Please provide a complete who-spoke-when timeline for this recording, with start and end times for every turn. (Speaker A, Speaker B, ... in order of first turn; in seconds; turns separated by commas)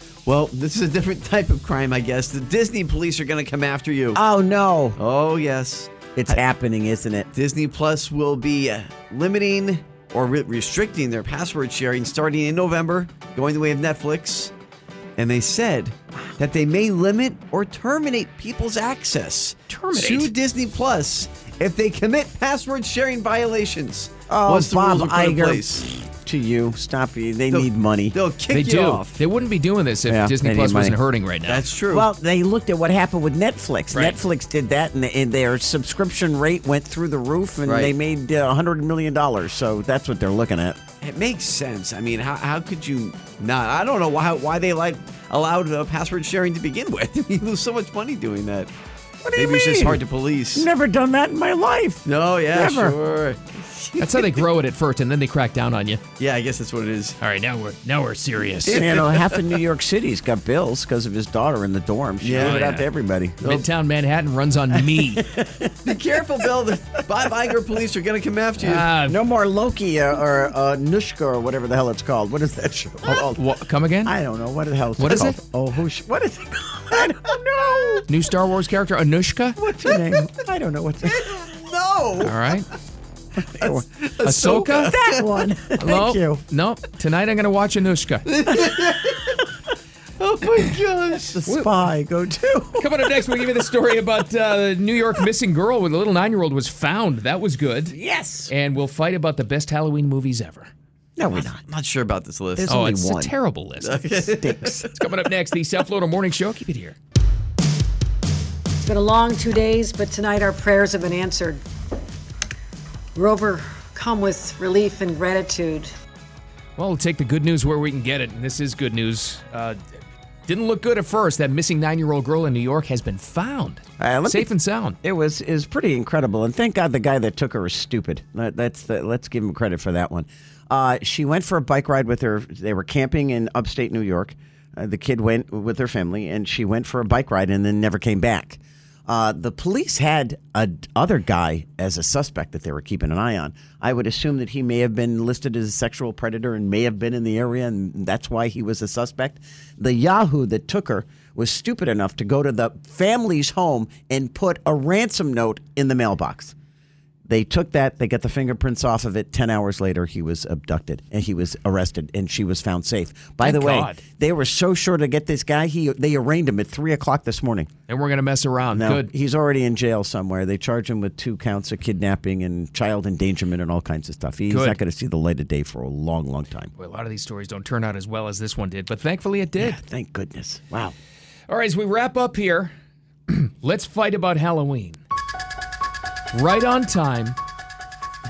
Speaker A: 0.2-4.2, Speaker B: 4.1-5.0, Speaker A: 5.0-6.4, Speaker B: 6.2-7.3, Speaker A: 7.3-14.5, Speaker A: 15.2-26.0, Speaker C: 19.7-20.3, Speaker B: 24.3-28.1, Speaker A: 27.5-29.2, Speaker C: 28.5-31.6, Speaker B: 30.1-31.0, Speaker A: 31.5-32.1, Speaker B: 31.9-40.8, Speaker C: 33.9-34.2, Speaker A: 37.6-37.9, Speaker A: 41.0-48.7, Speaker B: 49.2-50.0, Speaker A: 49.4-50.7, Speaker B: 50.5-53.0, Speaker A: 52.0-54.4, Speaker C: 54.0-56.0, Speaker A: 56.2-57.2, Speaker C: 57.2-58.8, Speaker A: 58.6-59.5, Speaker B: 58.7-63.5, Speaker A: 62.2-62.6, Speaker C: 62.4-62.9, Speaker C: 63.4-65.2, Speaker B: 64.7-66.5, Speaker A: 65.8-68.8, Speaker C: 68.6-69.2, Speaker B: 69.0-73.4, Speaker C: 73.0-74.1, Speaker B: 74.0-78.0, Speaker C: 75.0-75.4, Speaker C: 78.1-79.6, Speaker B: 79.6-81.3, Speaker A: 81.0-82.5, Speaker C: 82.2-82.7, Speaker B: 83.4-86.4, Speaker A: 83.6-85.3, Speaker C: 84.2-84.9, Speaker C: 85.8-88.3, Speaker A: 88.3-89.4, Speaker A: 90.2-91.3, Speaker B: 91.2-93.1, Speaker C: 92.8-98.0, Speaker B: 97.9-98.5, Speaker C: 98.5-100.7, Speaker B: 101.2-101.6, Speaker A: 101.3-102.7, Speaker B: 102.5-103.3, Speaker C: 102.7-107.0, Speaker A: 103.8-105.1, Speaker B: 104.4-104.8, Speaker D: 108.8-111.6, Speaker D: 113.1-115.9, Speaker C: 116.8-119.8, Speaker C: 120.5-125.0, Speaker B: 124.0-124.5, Speaker B: 125.0-156.5, Speaker B: 157.3-167.7, Speaker C: 163.4-164.0, Speaker C: 167.9-169.1, Speaker B: 168.7-176.7, Speaker C: 174.5-174.8, Speaker C: 176.8-179.8, Speaker B: 179.6-180.9, Speaker C: 181.5-182.7, Speaker C: 183.3-185.0, Speaker C: 186.3-187.4